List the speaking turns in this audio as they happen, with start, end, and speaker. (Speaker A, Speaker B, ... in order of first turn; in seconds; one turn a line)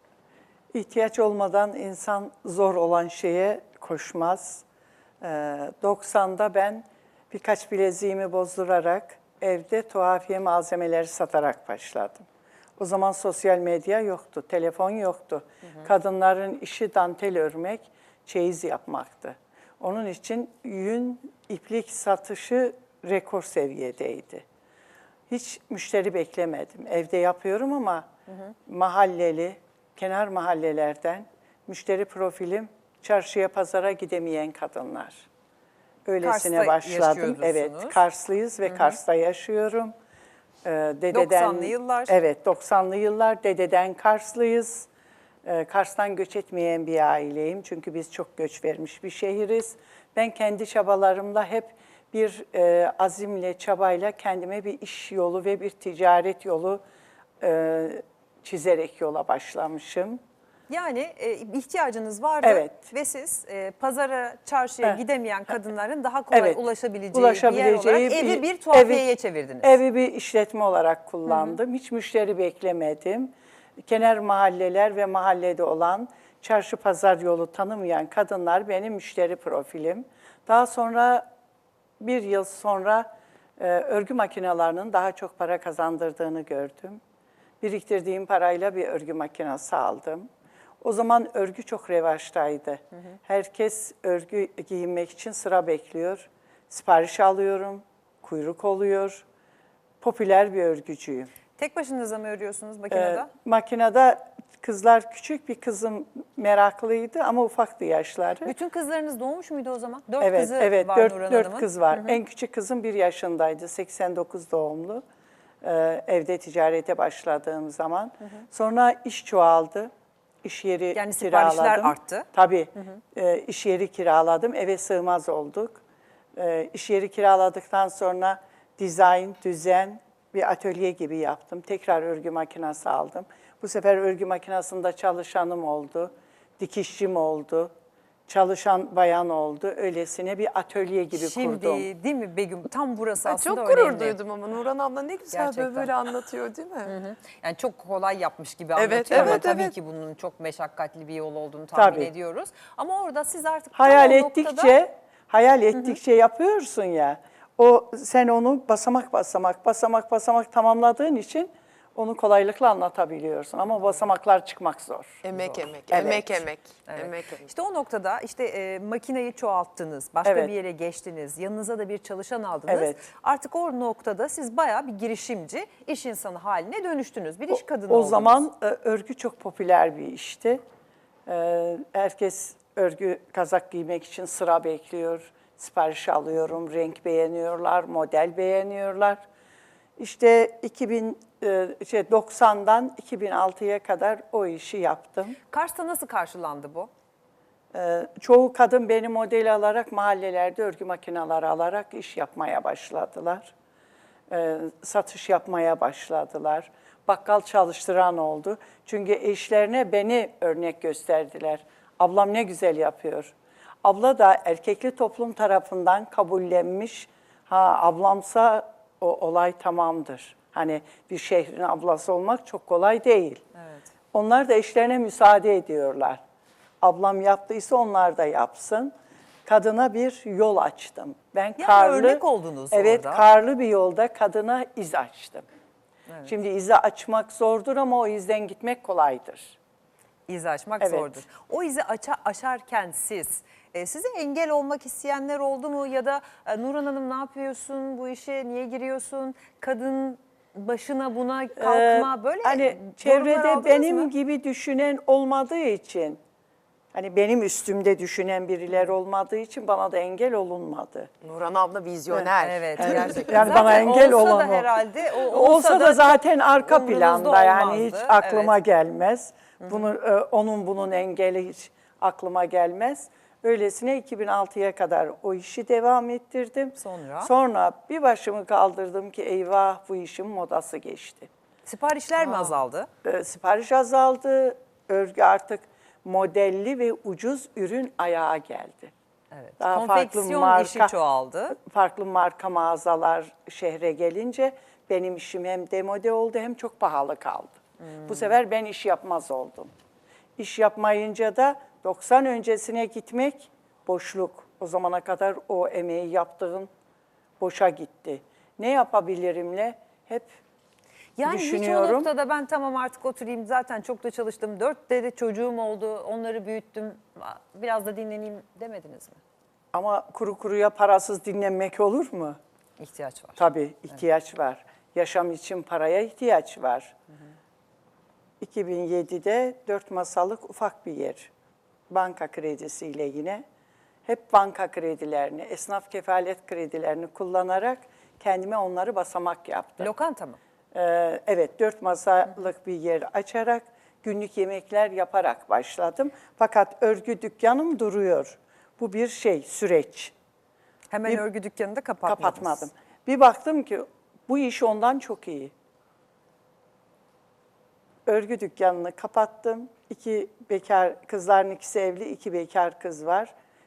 Speaker A: 0.7-4.6
Speaker A: 5.2-12.2
Speaker A: 12.8-24.4
Speaker A: 25.3-28.1
Speaker A: 28.7-35.3
Speaker A: 36.1-39.9
Speaker B: 36.2-38.0
Speaker A: 40.6-44.9
Speaker B: 41.1-42.2
Speaker A: 45.5-56.8
Speaker A: 57.4-60.2
Speaker B: 60.7-69.8
Speaker A: 62.4-62.7
Speaker A: 66.3-66.6
Speaker A: 67.1-69.1
Speaker A: 69.6-73.3
Speaker B: 71.3-71.6
Speaker A: 73.8-81.2
Speaker A: 82.0-87.0
Speaker A: 87.6-90.3
Speaker A: 90.8-99.2
Speaker A: 100.0-101.3
Speaker B: 101.6-103.3
Speaker A: 102.9-108.5
Speaker B: 108.4-112.2
Speaker A: 110.2-115.0
Speaker A: 115.6-119.9
Speaker A: 120.4-125.8
Speaker B: 120.9-122.3
Speaker A: 126.4-137.7
Speaker A: 138.3-141.9
Speaker B: 141.1-144.2
Speaker C: 143.2-146.9
Speaker B: 145.3-145.9
Speaker B: 146.8-154.8
Speaker C: 148.8-149.7
Speaker A: 149.1-149.4
Speaker A: 151.8-152.1
Speaker A: 153.8-165.2
Speaker C: 165.2-167.5
Speaker A: 165.9-166.4
Speaker B: 166.9-178.4
Speaker A: 170.2-170.5
Speaker A: 172.7-173.0
Speaker A: 177.5-180.6
Speaker A: 181.3-189.2
Speaker A: 190.0-195.4
Speaker B: 195.5-196.9
Speaker A: 197.7-203.5
Speaker A: 204.3-223.4
Speaker B: 223.6-223.9
Speaker A: 224.1-226.2
Speaker A: 226.8-228.9
Speaker A: 229.4-235.4
Speaker B: 231.6-233.3
Speaker A: 236.2-239.6
Speaker B: 240.3-254.1
Speaker A: 240.8-241.2
Speaker A: 251.6-256.2
Speaker A: 256.9-261.1
Speaker C: 261.2-263.6
Speaker A: 262.1-264.7
Speaker B: 262.4-268.6
Speaker A: 265.3-281.3
Speaker B: 269.6-269.9
Speaker B: 276.8-277.3
Speaker B: 281.7-282.9
Speaker A: 282.2-288.9
Speaker B: 289.3-291.6
Speaker A: 289.6-290.9
Speaker A: 291.5-299.7
Speaker B: 297.8-298.4
Speaker A: 300.4-306.7
Speaker A: 307.4-310.3
Speaker B: 311.2-319.2
Speaker A: 311.2-312.1
Speaker A: 319.7-322.4
Speaker B: 322.8-323.4
Speaker A: 323.4-326.9
Speaker A: 328.4-331.3
Speaker A: 331.9-333.4
Speaker A: 334.1-339.9
Speaker B: 339.8-340.4
Speaker A: 340.7-350.1
Speaker B: 350.9-352.7
Speaker A: 352.1-355.5
Speaker A: 358.1-363.3